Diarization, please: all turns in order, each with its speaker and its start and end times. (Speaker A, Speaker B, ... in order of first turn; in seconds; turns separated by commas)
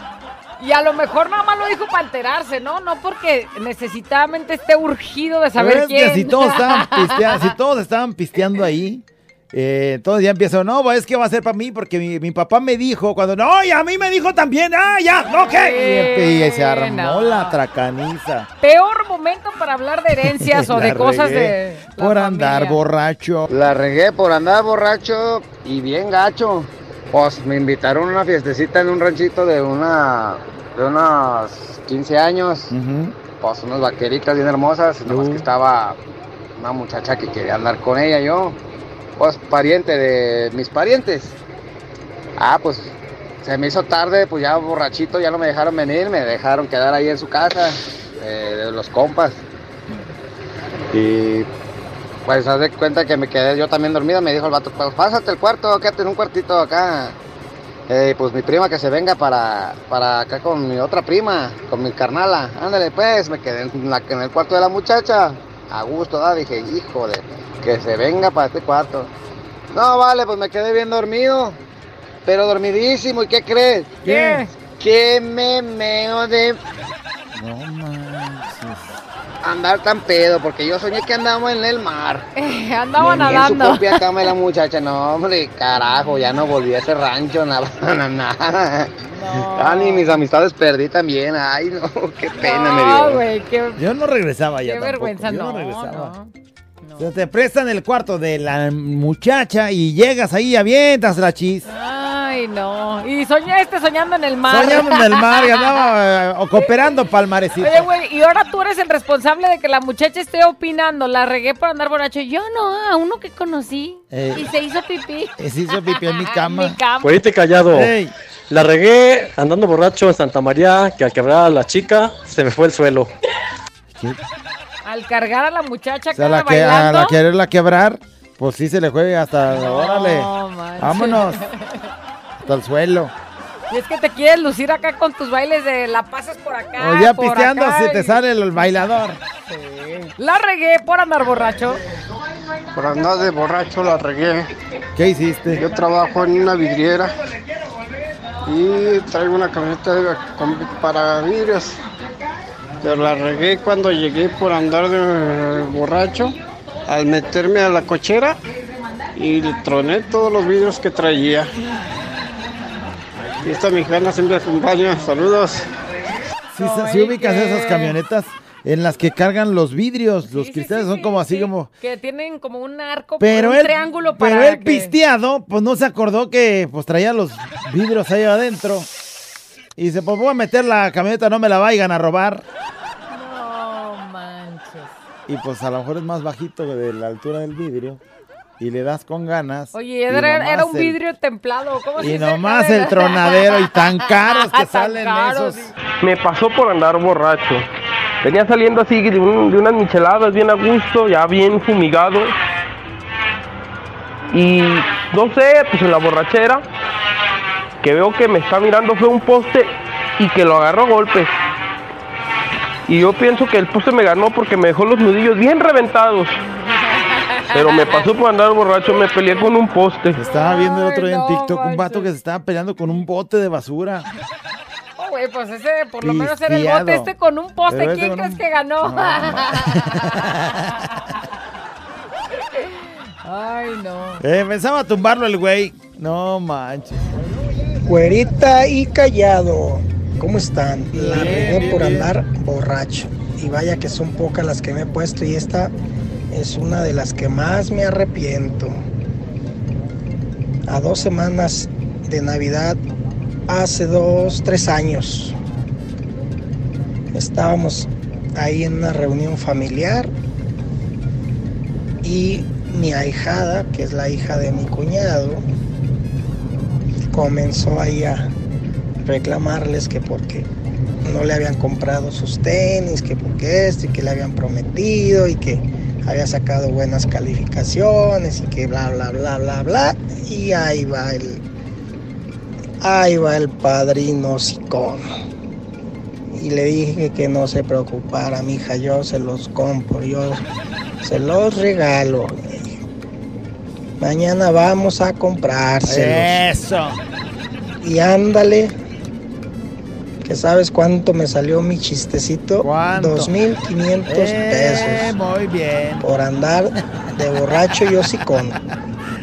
Speaker A: 0.6-7.5, Speaker B: 5.6-18.5, Speaker A: 15.3-17.6, Speaker A: 18.6-22.8, Speaker B: 20.2-23.5, Speaker C: 23.5-32.7, Speaker B: 32.7-33.1, Speaker C: 33.2-36.0, Speaker B: 35.0-35.4, Speaker C: 36.6-38.5, Speaker C: 39.2-41.4, Speaker C: 42.4-49.4, Speaker C: 50.9-51.5, Speaker C: 52.2-57.1, Speaker C: 57.9-69.1, Speaker C: 69.7-71.6, Speaker C: 72.2-74.0, Speaker B: 74.0-74.5, Speaker A: 74.0-74.5, Speaker C: 74.7-76.6, Speaker B: 77.3-79.0, Speaker C: 79.4-82.2, Speaker A: 82.4-84.2, Speaker C: 83.0-88.9, Speaker A: 89.2-90.1, Speaker C: 89.5-93.2, Speaker A: 92.4-93.8, Speaker B: 93.8-96.1, Speaker A: 94.7-96.3, Speaker A: 96.8-97.1, Speaker B: 97.0-101.6, Speaker A: 101.7-105.6, Speaker B: 104.5-107.8, Speaker A: 107.6-115.3, Speaker B: 114.1-114.5, Speaker B: 115.4-116.8, Speaker A: 115.9-117.2, Speaker D: 117.0-117.9, Speaker B: 117.7-118.1, Speaker D: 118.5-123.1, Speaker B: 123.9-124.2, Speaker A: 124.8-127.2, Speaker B: 126.1-131.4, Speaker A: 129.5-131.9, Speaker B: 132.4-133.1, Speaker A: 133.7-138.2, Speaker B: 136.8-139.2, Speaker A: 139.5-141.8, Speaker E: 142.7-144.5, Speaker B: 144.9-145.6, Speaker E: 145.5-147.2, Speaker E: 148.4-151.8, Speaker E: 152.8-158.4, Speaker E: 159.2-161.5, Speaker E: 163.4-165.7, Speaker A: 166.5-167.9, Speaker B: 166.5-171.7, Speaker A: 170.3-174.9, Speaker B: 173.2-178.9, Speaker B: 179.8-182.4, Speaker A: 183.1-184.9, Speaker B: 185.3-188.0, Speaker B: 188.6-191.0, Speaker A: 189.7-195.7, Speaker B: 192.0-195.7, Speaker F: 196.0-197.6, Speaker F: 198.2-202.3, Speaker F: 204.3-206.6, Speaker F: 207.8-211.3, Speaker F: 212.9-216.3, Speaker A: 216.9-217.8, Speaker F: 217.5-220.2, Speaker B: 220.1-224.1, Speaker A: 220.5-222.1, Speaker A: 225.0-229.9, Speaker B: 226.0-227.1, Speaker B: 227.7-230.9, Speaker A: 232.5-234.2, Speaker B: 234.2-237.1, Speaker G: 237.8-245.7, Speaker B: 240.9-242.1, Speaker G: 246.3-248.8, Speaker G: 250.7-252.8, Speaker G: 253.5-255.3, Speaker G: 257.1-260.1, Speaker G: 262.0-265.4, Speaker G: 267.1-268.3, Speaker G: 269.0-270.5, Speaker G: 271.1-281.4, Speaker G: 282.8-285.0, Speaker G: 286.3-290.4, Speaker G: 291.0-292.7, Speaker G: 294.0-296.4, Speaker B: 295.9-297.0, Speaker G: 297.8-298.7, Speaker G: 300.2-305.1, Speaker B: 302.6-303.3, Speaker B: 304.1-306.1, Speaker G: 306.0-308.6